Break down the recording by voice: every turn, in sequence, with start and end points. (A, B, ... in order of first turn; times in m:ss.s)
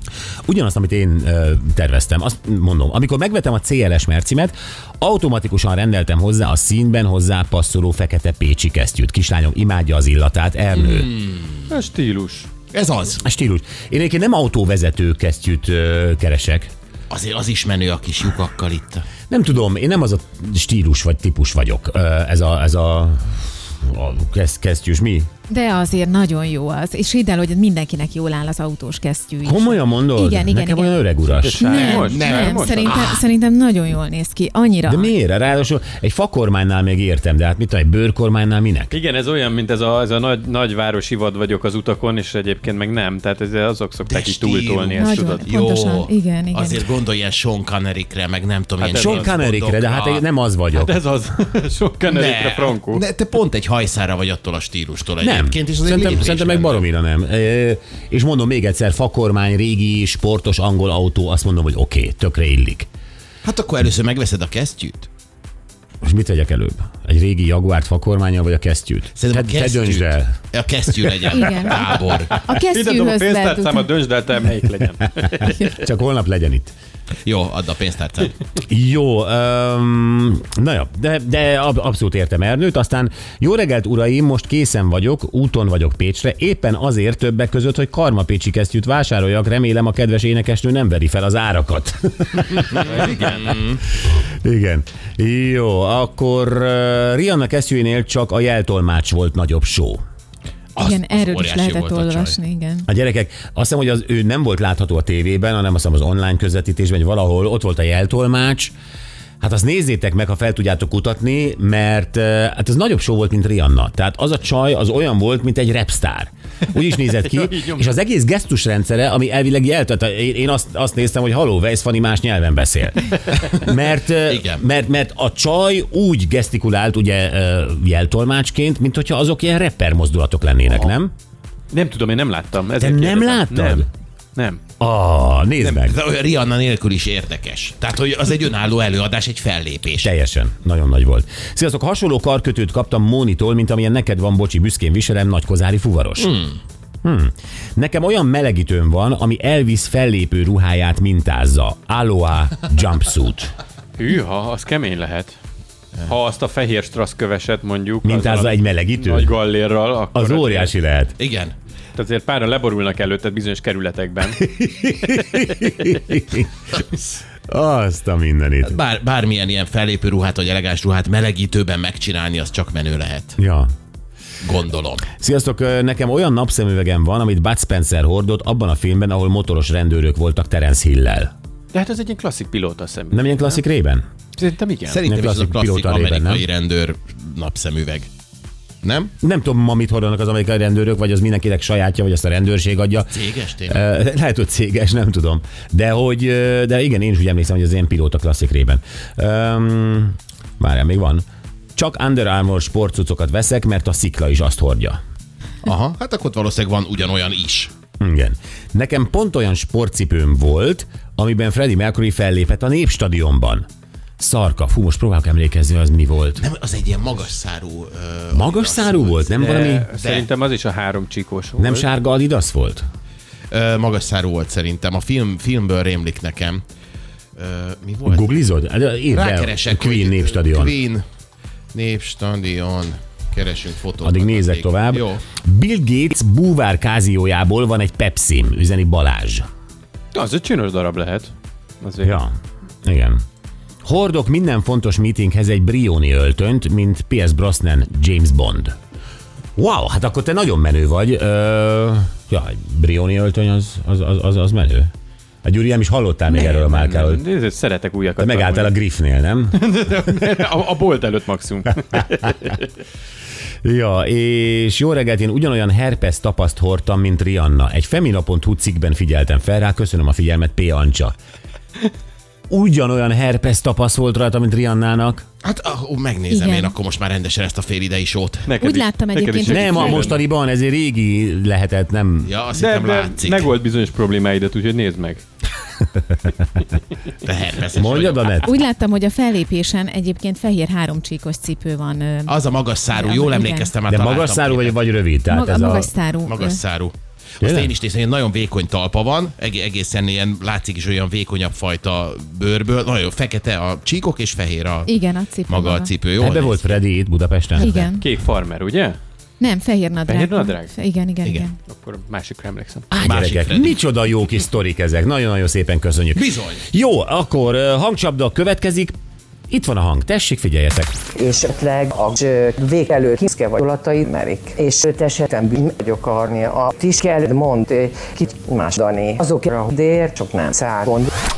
0:00.5-0:11.1 A
0:10.8-0:11.6 B
0:11.7-0:12.5 C
0:12.7-0:13.2 B
0:13.2-0:16.7 A
0:17.1-0:19.0 B
0:19.3-0:25.3 A
0:25.5-0:35.1 D
0:29.4-0:31.8 A
0:31.3-0:32.9 C
0:31.7-0:33.2 B
0:34.8-0:38.9 A
0:38.9-0:45.5 C
0:44.0-0:50.2 B
0:44.9-0:46.8 D
0:48.8-0:49.3 C
0:48.9-0:51.0 A
0:50.7-0:53.0 C
0:52.1-0:56.8 B
0:55.2-1:02.9 A
1:03.4-1:05.1 B
1:06.0-1:10.4 A
1:09.2-1:12.4 B
1:11.3-1:13.9 D
1:12.2-1:15.8 C
1:15.4-1:16.7 A
1:17.2-1:18.4 B
1:18.6-1:33.5 A
1:32.8-1:33.5 C
1:33.0-1:33.8 B
1:34.4-1:40.0 A
1:40.8-1:42.4 B
1:40.8-1:42.9 D
1:42.9-1:48.7 A
1:49.4-2:11.1 A
1:57.1-1:57.9 C
2:04.2-2:04.6 B
2:10.7-2:10.9 C
2:11.7-2:14.6 C
2:12.8-2:13.9 A
2:14.8-2:15.9 A
2:15.9-2:20.1 B
2:20.0-2:26.3 A
2:26.2-2:26.6 B
2:27.0-2:33.5 A
2:34.0-2:35.4 C
2:36.0-2:40.7 C
2:38.0-2:39.3 A
2:40.1-2:41.1 A
2:41.2-2:41.5 B
2:41.9-2:46.0 C
2:44.6-2:46.5 A
2:47.5-2:48.8 A
2:48.6-2:53.4 B
2:53.4-2:53.7 A
2:54.4-2:55.1 B
2:55.1-3:01.3 A
3:01.7-3:03.6 C
3:03.1-3:04.0 A
3:04.4-3:05.0 C
3:04.8-3:08.1 B
3:05.0-3:06.4 A
3:08.8-3:09.1 B
3:09.2-3:25.0 A
3:13.1-3:13.8 B
3:25.6-3:27.7 B
3:28.0-3:33.6 A
3:34.2-3:36.4 A
3:36.4-3:39.3 B
3:38.3-3:39.9 A
3:39.3-3:41.9 C
3:39.9-3:40.3 B
3:41.6-3:42.9 A
3:43.5-3:46.6 B
3:47.4-3:48.4 B
3:48.0-3:50.7 A
3:49.1-3:51.0 B
3:51.7-3:55.2 B
3:54.0-3:59.4 A
4:00.1-4:02.2 C
4:02.0-4:02.3 A
4:02.8-4:03.2 A
4:03.8-4:08.7 A
4:09.6-4:14.9 A
4:15.4-4:17.2 A
4:16.3-4:18.8 C
4:18.2-4:19.6 A
4:19.5-4:22.6 C
4:23.6-4:31.1 A
4:32.5-4:35.2 A
4:35.4-4:38.5 B
4:36.3-4:36.7 D
4:38.4-4:40.2 C
4:38.6-4:40.1 D
4:39.5-4:42.3 A
4:42.2-4:43.6 B
4:42.5-4:45.2 C
4:45.9-4:46.4 A
4:47.2-4:48.5 B
4:47.7-4:48.5 A
4:48.4-4:53.7 D
4:52.3-4:54.8 B
4:53.9-4:55.9 A
4:55.3-4:56.6 D
4:56.2-5:04.9 B
4:57.4-4:57.7 A
5:04.8-5:05.9 D
5:05.4-5:06.8 B
5:06.2-5:07.7 A
5:07.6-5:08.1 D
5:07.9-5:09.0 C
5:09.4-5:11.6 D
5:10.0-5:10.8 C
5:11.6-5:12.9 C
5:12.9-5:18.9 A
5:13.0-5:13.8 B
5:16.1-5:16.6 B
5:19.5-5:20.9 A
5:21.2-5:31.1 E